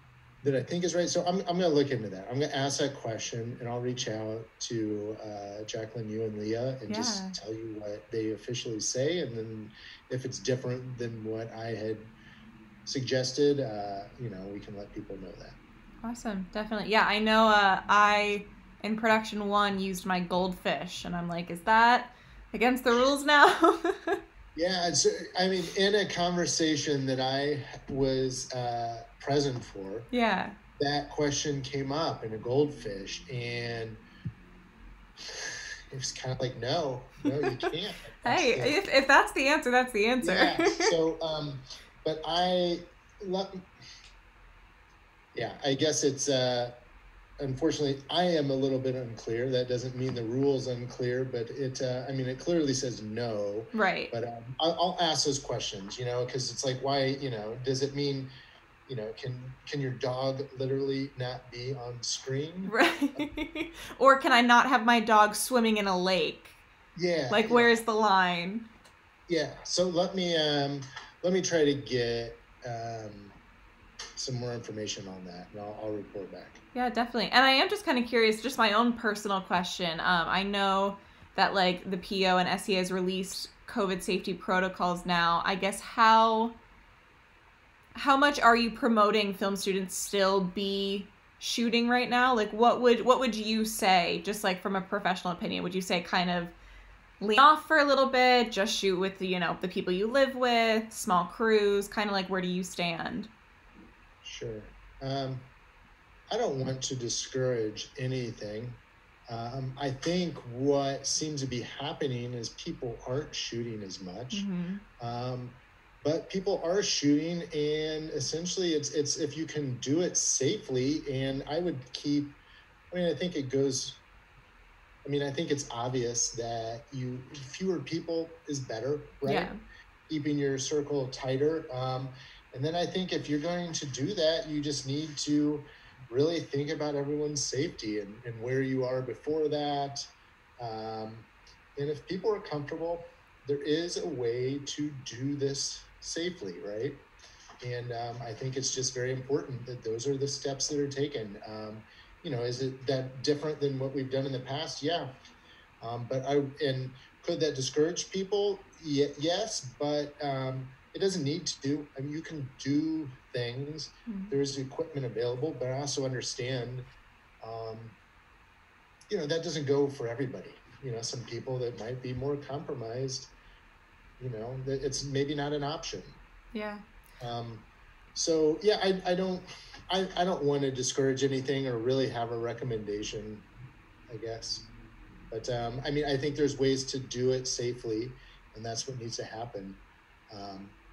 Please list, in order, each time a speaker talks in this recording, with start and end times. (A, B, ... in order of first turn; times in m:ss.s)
0:00.4-0:12.1 A
0:06.9-0:07.4 B
0:12.8-0:15.6 A
0:16.0-0:24.2 B
0:24.6-0:30.1 A
0:30.1-0:30.6 B
0:30.8-0:34.0 A
0:35.3-0:38.8 A
0:37.3-0:37.7 B
0:38.2-0:40.9 B
0:40.2-0:43.6 A
0:45.3-0:46.7 A
0:47.4-0:58.3 A
0:53.7-0:54.1 B
0:58.9-1:03.2 A
1:02.7-1:06.6 B
1:07.0-1:07.8 A
1:07.3-1:08.7 B
1:09.3-1:13.3 A
1:14.2-1:16.6 A
1:16.7-1:26.6 B
1:28.0-1:36.5 B
1:37.2-1:43.3 B
1:44.2-1:45.5 A
1:46.3-1:54.4 A
1:54.3-1:54.8 B
1:55.0-2:02.4 A
2:02.9-2:04.0 A
2:05.0-2:09.5 A
2:09.2-2:09.6 B
2:10.1-2:20.0 A
2:20.6-2:27.0 A
2:27.6-2:35.1 A
2:35.8-2:46.9 A
2:44.1-2:44.3 B
2:47.4-2:48.0 A
2:49.1-2:53.3 A
2:54.2-2:56.2 A
2:56.5-2:56.8 B
2:57.2-2:57.6 A
2:58.1-3:03.5 A
3:04.1-3:04.7 A
3:05.3-3:10.7 A